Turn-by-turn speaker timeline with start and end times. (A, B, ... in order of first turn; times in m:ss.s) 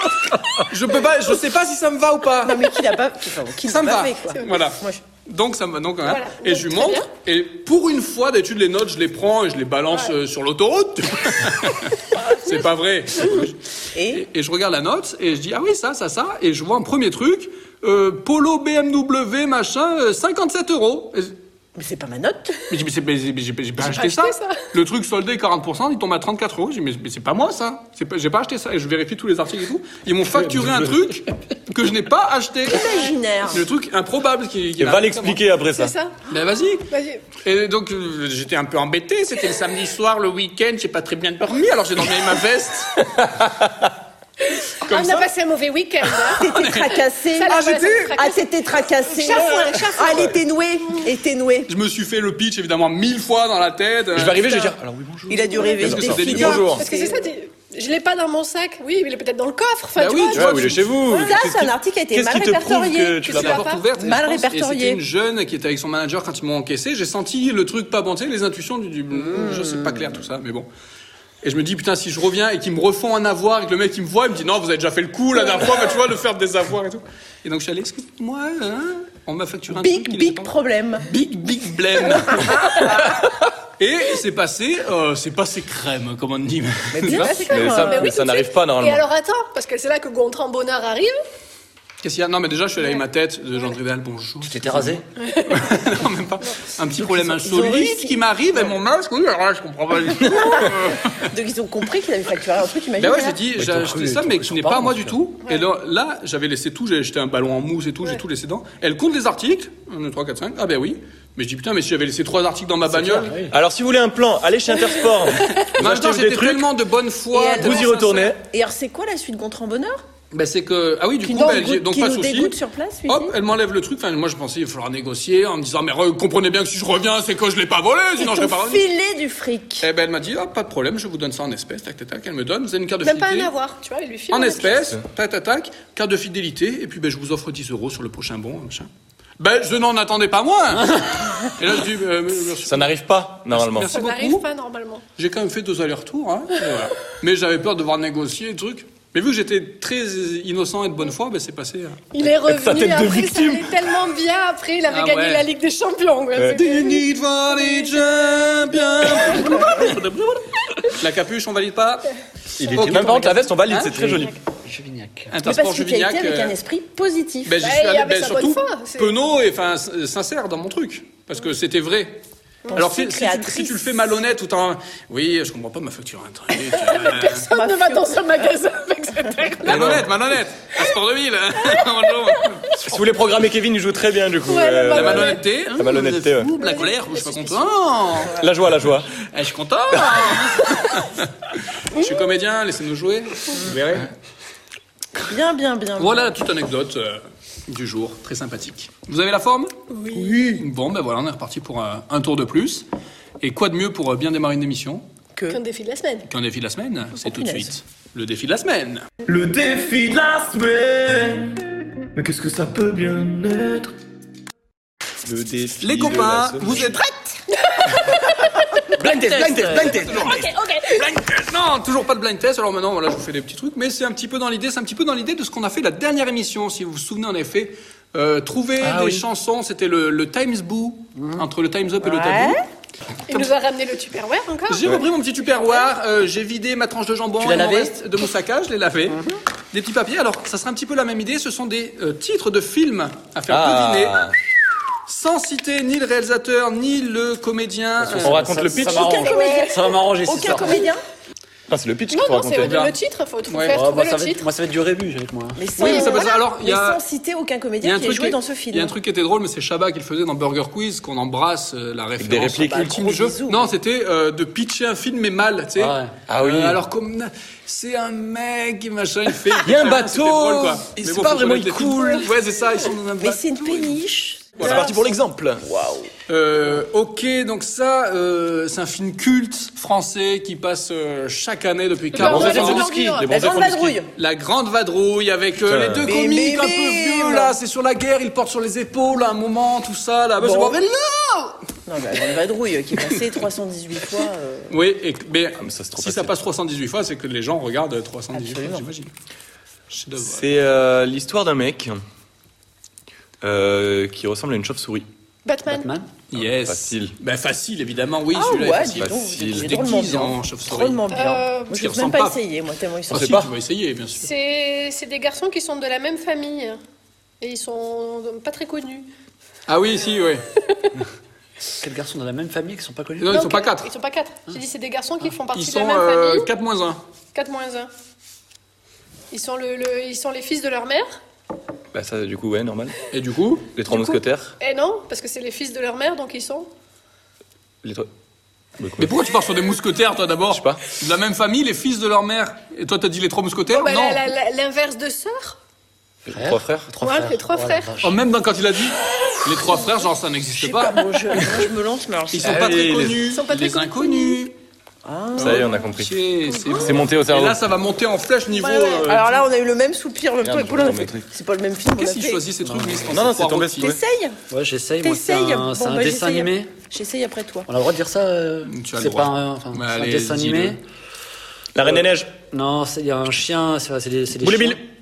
0:00.6-0:02.8 A
0:02.4-0:05.0 B
0:03.7-0:13.6 A
0:06.0-0:07.1 C
0:13.9-0:14.2 B
0:14.1-0:21.4 A
0:21.8-0:22.7 B
0:22.7-0:35.4 A
0:23.8-0:24.6 C
0:32.7-0:33.6 B
0:34.8-0:35.9 D
0:35.8-0:36.3 C
0:36.3-0:43.1 A
0:36.9-0:37.2 C
0:43.2-0:43.7 D
0:44.6-0:46.5 C
0:44.9-0:45.3 A
0:46.3-0:51.7 B
0:46.3-0:48.2 A
0:47.4-0:48.5 C
0:49.1-0:50.3 C
0:49.3-0:50.2 A
0:51.7-0:54.7 A
0:54.1-0:56.8 D
0:55.3-0:57.3 B
0:55.7-0:56.8 A
0:56.7-1:00.6 C
1:00.0-1:01.3 A
1:00.3-1:03.6 D
1:01.1-1:03.4 B
1:03.2-1:03.8 C
1:03.3-1:10.7 A
1:03.9-1:05.0 B
1:09.1-1:10.2 B
1:11.4-1:20.5 A
1:19.7-1:21.1 B
1:21.1-1:27.4 A
1:22.2-1:23.2 B
1:26.9-1:28.2 B
1:27.1-1:31.2 C
1:27.5-1:29.0 D
1:32.0-1:41.0 A
1:34.7-1:35.0 E
1:35.2-1:35.7 C
1:37.0-1:38.7 B
1:40.2-1:43.4 B
1:43.0-1:53.4 A
1:43.6-1:45.2 E
1:52.9-1:53.5 E
1:53.5-1:56.6 D
1:55.5-1:58.4 A
1:57.3-2:00.0 B
1:57.6-1:58.4 D
2:00.3-2:02.6 A
2:01.2-2:03.3 B
2:03.1-2:08.9 A
2:08.2-2:09.9 B
2:09.8-2:13.5 A
2:13.0-2:14.9 C
2:14.3-2:24.5 A
2:22.6-2:23.9 D
2:23.9-2:25.0 C
2:25.2-2:32.0 A
2:32.1-2:39.7 C
2:32.5-2:33.6 D
2:32.9-2:33.4 F
2:34.9-2:35.5 A
2:36.5-2:42.1 A
2:42.6-2:45.3 E
2:42.7-2:44.2 A
2:42.8-2:44.4 D
2:45.3-2:46.6 A
2:45.4-2:47.6 B
2:47.4-2:52.2 A
2:47.6-2:49.1 C
2:52.8-2:54.0 B
2:52.8-2:57.5 A
2:56.7-2:59.8 C
2:57.3-2:58.2 B
2:59.6-3:03.0 A
2:59.7-3:00.1 D
3:02.8-3:06.5 D
3:04.4-3:05.6 C
3:04.9-3:08.4 A
3:06.6-3:07.7 C
3:08.1-3:08.5 B
3:08.4-3:09.1 D
3:09.2-3:11.3 A
3:10.0-3:10.7 B
3:11.9-3:14.1 A
3:15.2-3:16.4 B
3:16.0-3:22.8 A
3:19.9-3:20.3 C
3:20.1-3:20.7 B
3:23.4-3:25.0 A
3:25.5-3:26.3 C
3:26.3-3:29.0 A
3:27.2-3:27.7 B
3:29.3-3:33.9 F
3:35.2-3:37.0 D
3:35.8-3:37.4 A
3:39.0-3:40.4 D
3:39.9-3:52.6 A
3:40.3-3:40.8 C
3:48.8-3:49.2 D
3:51.2-3:51.4 E
3:52.0-3:52.6 B
3:53.3-3:54.8 C
3:54.7-3:59.2 A
3:57.4-3:57.9 B
3:59.1-3:59.4 B
3:59.7-4:04.3 A
4:03.5-4:04.3 D
4:05.1-4:08.5 A
4:08.0-4:10.9 E
4:08.2-4:09.2 D
4:08.7-4:11.0 B
4:08.8-4:09.8 C
4:11.7-4:12.8 D
4:12.1-4:14.5 C
4:12.5-4:13.0 A
4:13.5-4:13.8 A
4:13.7-4:15.6 E
4:15.6-4:19.0 B
4:15.8-4:17.0 A
4:15.8-4:16.3 C
4:17.8-4:34.0 A
4:22.2-4:22.9 D
4:22.6-4:23.7 B
4:25.8-4:26.2 E
4:26.3-4:26.8 D
4:29.6-4:32.3 D
4:33.2-4:35.0 B
4:34.6-4:34.9 A
4:34.6-4:35.6 D
4:35.6-4:36.1 B
4:36.3-4:51.6 A
4:42.2-4:43.3 C
4:42.2-4:44.1 B
4:42.3-4:42.7 D
4:45.7-4:46.1 D
4:46.0-4:47.6 B
4:50.4-4:50.8 B
4:51.9-4:54.8 B
4:54.7-4:59.1 A
4:55.6-4:56.3 D
4:58.3-4:58.9 B
4:59.9-5:00.5 A
5:00.2-5:02.0 D
5:03.4-5:05.1 D
5:05.5-5:05.9 C
5:05.7-5:06.1 E
5:06.3-5:11.0 A
5:06.4-5:07.1 D
5:08.3-5:13.4 B
5:09.0-5:09.7 D
5:11.1-5:11.8 C
5:11.7-5:12.4 A
5:13.1-5:14.3 A
5:13.1-5:13.5 D
5:14.2-5:16.8 C
5:17.4-5:19.1 C
5:19.7-5:20.4 A
5:21.8-5:23.4 E
5:23.2-5:23.9 A
5:23.3-5:26.5 C
5:25.5-5:27.0 A
5:27.4-5:27.9 C
5:29.3-5:31.2 C
5:31.9-5:33.0 D
5:33.1-5:33.7 A
5:33.8-5:34.5 D
5:33.9-5:36.7 C
5:38.8-5:39.1 D
5:39.0-5:44.3 A
5:40.5-5:40.8 D
5:43.7-5:45.6 C
5:46.3-5:46.9 D
5:46.3-5:48.2 E
5:47.0-5:47.9 C
5:48.0-5:51.5 A
5:50.5-5:52.9 B
5:52.3-5:54.5 A
5:52.4-5:53.2 D
5:53.3-5:54.4 C
5:55.0-5:55.9 B
5:55.4-5:59.5 A
5:55.4-5:56.1 D
5:56.5-5:56.9 C
5:56.8-5:57.6 D
5:58.5-6:02.5 B
6:00.4-6:01.3 D
6:01.9-6:04.0 A
6:02.6-6:03.1 E
6:03.1-6:04.0 D
6:03.8-6:04.4 B
6:04.5-6:06.7 E
6:05.0-6:07.7 B
6:07.7-6:10.8 E
6:08.7-6:10.8 A
6:11.8-6:12.4 D
6:12.3-6:14.8 E
6:14.4-6:14.8 D